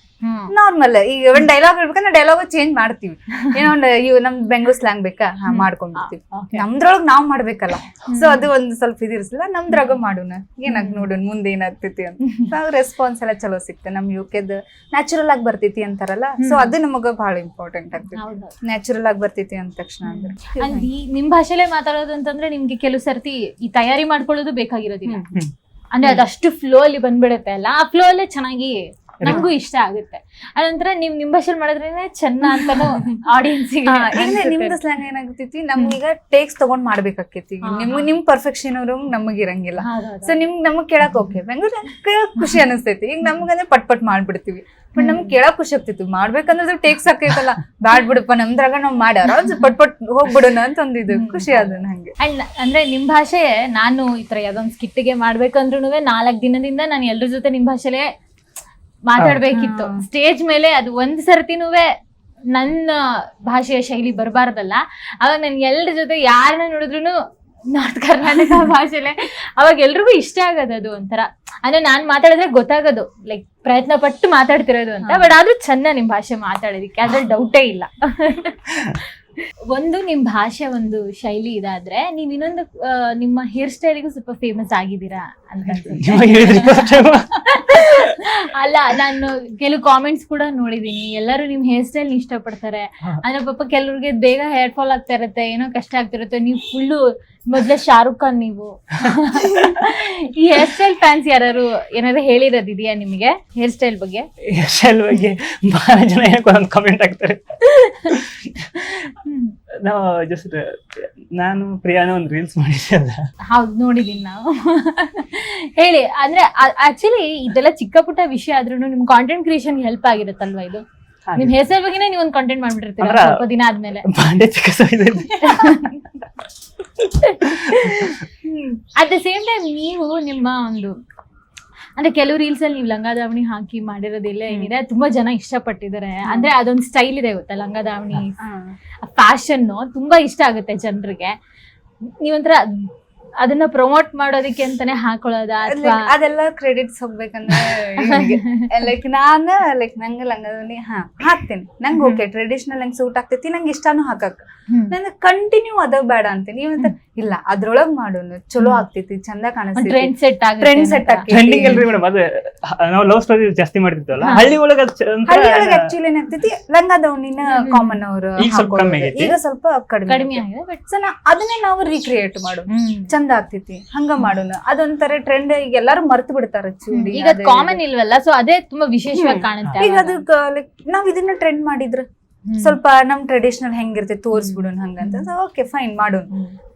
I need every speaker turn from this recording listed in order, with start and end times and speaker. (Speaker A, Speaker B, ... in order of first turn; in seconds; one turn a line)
Speaker A: 0.2-0.5
Speaker B: 0.5-20.9
Speaker A: 3.4-3.6
Speaker A: 5.5-6.7
Speaker A: 8.1-8.5
Speaker A: 9.7-10.0
Speaker A: 10.7-11.1
Speaker A: 12.2-12.5
Speaker A: 16.4-16.8
Speaker A: 18.1-18.5
Speaker A: 20.0-25.2
Speaker B: 25.0-25.4
Speaker A: 25.9-34.8
Speaker C: 29.2-29.5
Speaker B: 32.4-33.2
Speaker B: 33.9-52.1
Speaker A: 37.6-38.1
Speaker A: 39.8-40.4
Speaker A: 45.0-45.3
Speaker A: 49.4-49.7
Speaker A: 51.1-58.1
Speaker A: 59.0-61.9
Speaker B: 59.5-60.0
Speaker A: 62.5-67.2
Speaker A: 67.7-79.0
Speaker B: 75.0-75.3
Speaker A: 79.7-104.3
Speaker C: 85.7-88.2
Speaker C: 99.0-99.9
Speaker C: 104.5-108.7
Speaker A: 107.7-108.1
Speaker A: 109.2-109.5
Speaker C: 109.8-113.2
Speaker A: 113.5-120.8
Speaker C: 121.3-121.5
Speaker A: 121.4-124.0
Speaker C: 123.0-123.4
Speaker C: 124.0-126.0
Speaker A: 125.4-125.9
Speaker A: 127.2-131.0
Speaker C: 127.2-128.2
Speaker A: 132.0-138.4
Speaker B: 136.2-136.5
Speaker B: 138.4-138.7
Speaker A: 139.0-141.3
Speaker A: 142.2-146.1
Speaker B: 145.6-161.9
Speaker A: 148.0-148.8
Speaker A: 151.9-152.2
Speaker A: 154.7-154.9
Speaker A: 158.6-158.8
Speaker A: 159.8-161.8
Speaker C: 161.3-165.9
Speaker A: 164.2-164.5
Speaker B: 165.3-177.8
Speaker A: 167.4-168.0
Speaker C: 168.4-169.3
Speaker A: 170.1-170.8
Speaker A: 172.7-173.1
Speaker A: 176.9-180.2
Speaker B: 179.1-182.1
Speaker A: 182.5-182.8
Speaker B: 182.6-186.3
Speaker A: 184.3-185.3